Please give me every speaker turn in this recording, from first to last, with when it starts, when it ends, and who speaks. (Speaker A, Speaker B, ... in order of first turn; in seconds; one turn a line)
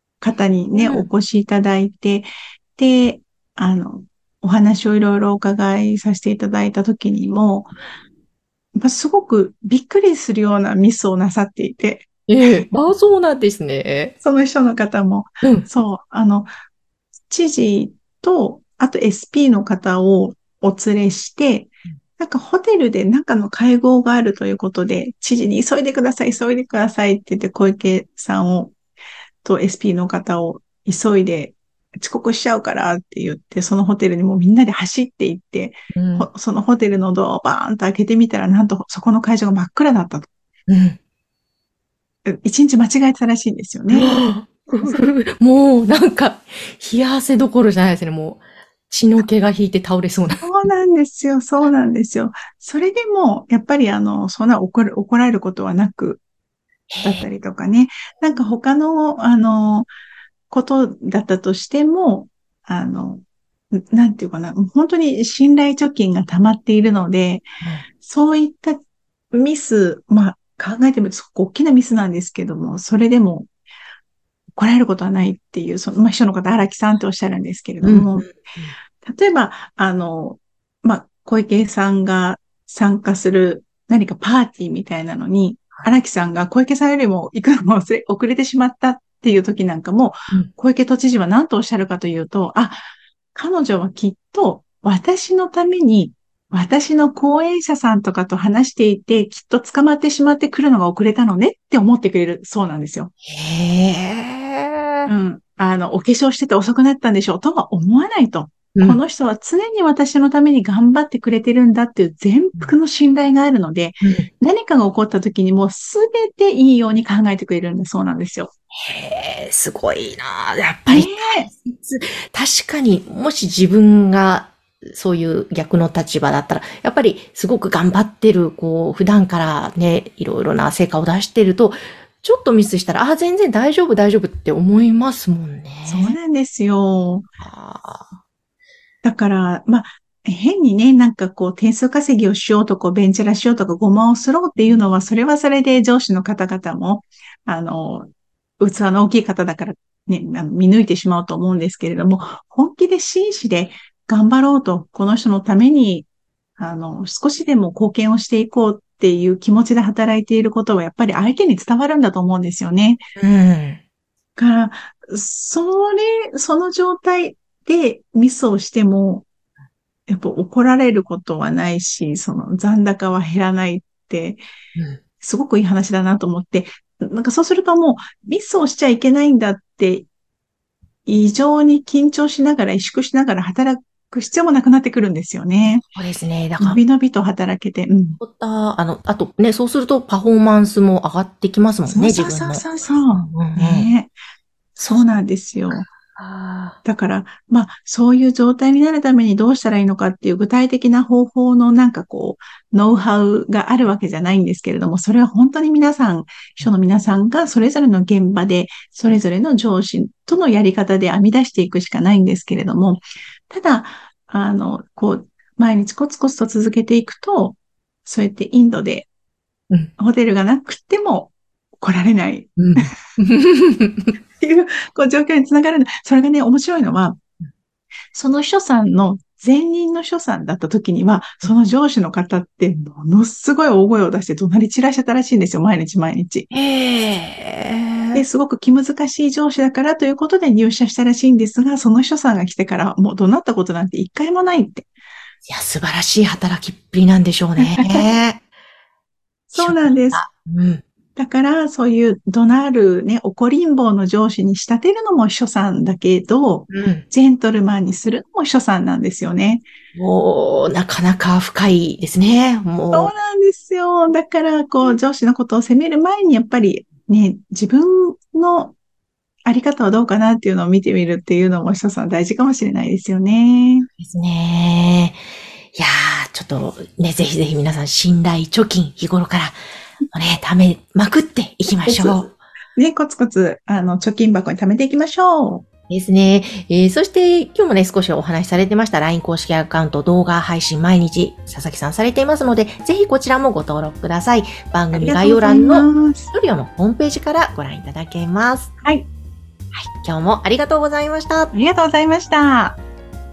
Speaker A: 0.2-7.7
Speaker B: 0.8-1.1
Speaker A: 8.8-12.7
Speaker B: 12.3-14.2
Speaker A: 14.2-16.5
Speaker A: 17.3-28.7
Speaker A: 29.4-40.3
Speaker B: 35.9-36.3
Speaker B: 40.7-41.0
Speaker A: 42.2-45.1
Speaker B: 43.9-50.7
Speaker A: 50.4-56.2
Speaker B: 56.9-57.2
Speaker A: 57.0-59.9
Speaker A: 60.5-67.5
Speaker A: 68.0-68.8
Speaker A: 69.3-73.5
Speaker A: 74.6-78.3
Speaker B: 77.8-78.8
Speaker A: 79.0-92.8
Speaker A: 93.3-103.1
Speaker B: 103.3-105.1
Speaker A: 105.1-118.5
Speaker B: 108.8-109.0
Speaker B: 114.0-114.3
Speaker B: 118.8-136.2
Speaker A: 120.9-121.5
Speaker A: 135.9-137.3
Speaker B: 137.4-138.1
Speaker A: 139.0-156.1
Speaker A: 156.6-163.0
Speaker B: 163.2-163.8
Speaker A: 164.4-169.3
Speaker A: 170.1-174.4
Speaker B: 174.8-175.0
Speaker A: 175.2-180.1
Speaker A: 181.1-185.8
Speaker B: 185.8-186.8
Speaker A: 186.6-188.2
Speaker B: 188.2-193.9
Speaker A: 191.9-194.1
Speaker A: 194.8-195.9
Speaker B: 195.7-196.8
Speaker A: 196.8-219.1
Speaker A: 220.0-222.9
Speaker B: 222.6-224.1
Speaker A: 224.4-227.2
Speaker A: 228.1-236.5
Speaker B: 236.5-238.2
Speaker A: 238.2-244.9
Speaker B: 245.5-248.4
Speaker A: 247.6-248.0
Speaker B: 249.5-250.8
Speaker A: 249.5-250.2
Speaker A: 251.2-259.6
Speaker B: 256.7-257.1
Speaker B: 259.9-263.1
Speaker A: 262.9-268.8
Speaker A: 269.4-273.9
Speaker B: 274.0-279.6
Speaker B: 280.1-282.4
Speaker A: 281.9-285.6
Speaker B: 285.9-298.7
Speaker A: 294.9-296.3
Speaker B: 299.7-301.5
Speaker A: 301.5-302.8